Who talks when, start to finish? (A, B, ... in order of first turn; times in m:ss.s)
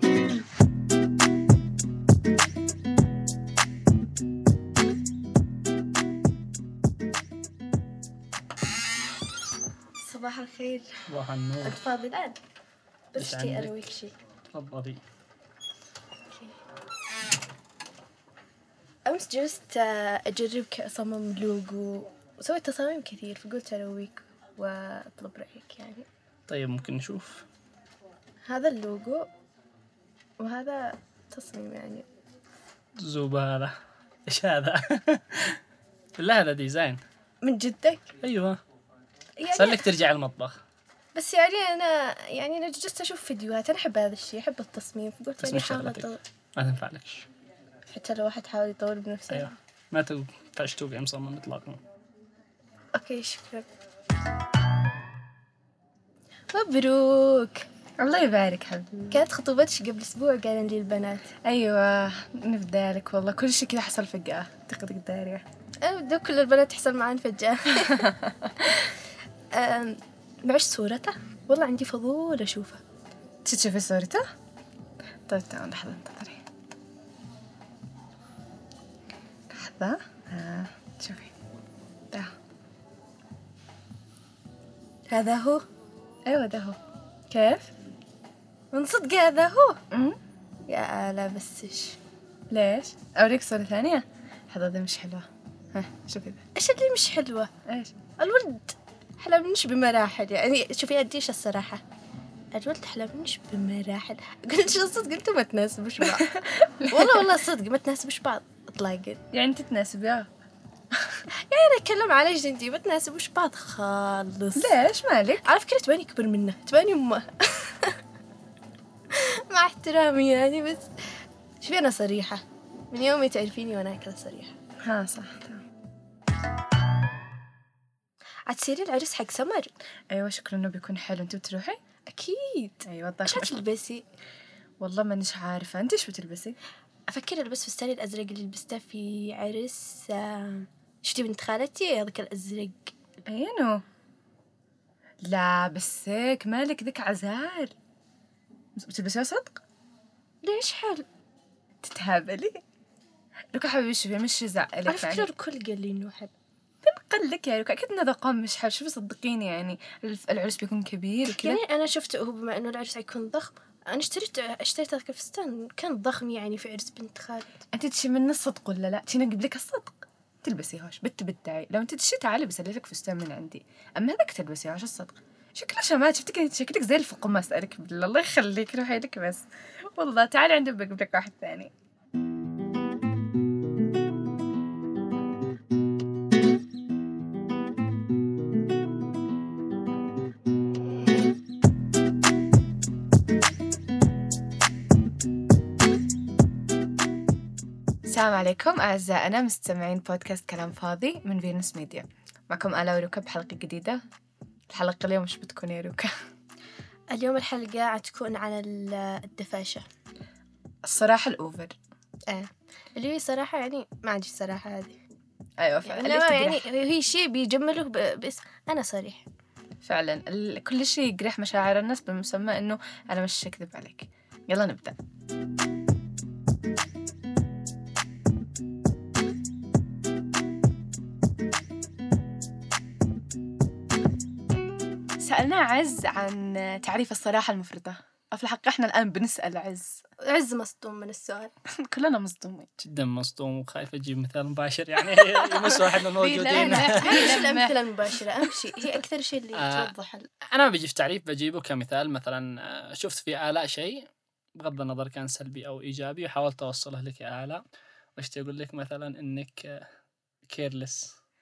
0:10.0-0:10.9 A
0:11.1-0:11.8 B
0:11.6-0:12.4 A
0:13.1-0:14.1 A
0:13.2-0:13.7 B
0:14.5-0:15.0 B
0:19.0-0:26.1 A
0:26.5-0:27.4 B
0:28.4-0:29.2 A
0:30.4-0:32.0 A
0:33.0-0:33.7 B
0:34.3-0:35.6 B
0:36.2-0:37.0 B
0:37.4-0:38.1 A
0:38.2-0:38.6 B
0:39.4-0:39.8 A
0:39.5-0:40.6 B
0:41.1-0:46.2 A
0:45.4-0:47.3 B
0:47.9-0:49.5 A
0:49.3-0:51.8 B
0:52.9-0:53.7 A
0:56.5-0:57.6 A
0:58.0-0:59.2 C
0:59.1-1:01.3 A
1:01.4-1:05.4 C
1:05.8-1:08.1 A
1:07.8-1:08.5 C
1:09.5-1:12.8 A
1:13.4-1:14.2 C
1:15.3-1:16.4 C
1:19.5-1:21.3 C
1:25.1-1:25.6 C
1:26.3-1:26.8 C
1:27.3-1:27.7 C
1:28.7-1:29.8 A
1:29.9-1:30.2 C
1:30.7-1:32.0 A
1:32.5-1:36.4 C
1:36.6-1:37.5 A
1:37.7-1:38.0 C
1:38.2-1:41.8 A
1:42.5-1:49.2 A
1:46.2-1:47.3 C
1:49.3-1:50.3 C
1:51.3-1:54.7 A
1:54.6-1:55.4 C
1:55.4-1:58.0 A
1:59.1-2:00.9 A
2:01.6-2:04.5 A
2:04.8-2:05.6 C
2:08.5-2:09.7 A
2:10.1-2:11.8 C
2:12.1-2:14.0 A
2:12.8-2:13.6 C
2:14.8-2:16.6 C
2:17.1-2:22.9 A
2:23.3-2:23.8 C
2:25.3-2:27.7 C
2:28.8-2:29.6 C
2:30.4-2:31.0 A
2:31.8-2:32.6 C
2:33.5-2:35.3 C
2:34.8-2:36.3 A
2:36.8-2:41.6 C
2:41.2-2:47.6 A
2:47.7-2:59.4 C
3:00.0-3:01.7 C
3:18.1-3:24.0 C
3:24.7-3:26.1 C
3:27.1-3:29.8 A
3:30.8-3:31.8 C
3:32.3-3:35.0 A
3:35.6-3:36.6 C
3:35.8-3:39.2 A
3:39.8-3:45.0 C
3:55.2-4:00.0 C
4:00.2-4:01.5 A
4:01.8-4:02.7 C
4:02.8-4:07.4 B
4:06.2-4:09.0 C
4:06.3-4:10.3 A
4:09.5-4:09.9 B
4:10.5-4:14.0 B
4:14.6-4:17.6 B
4:18.2-4:19.8 B
4:20.5-4:21.1 B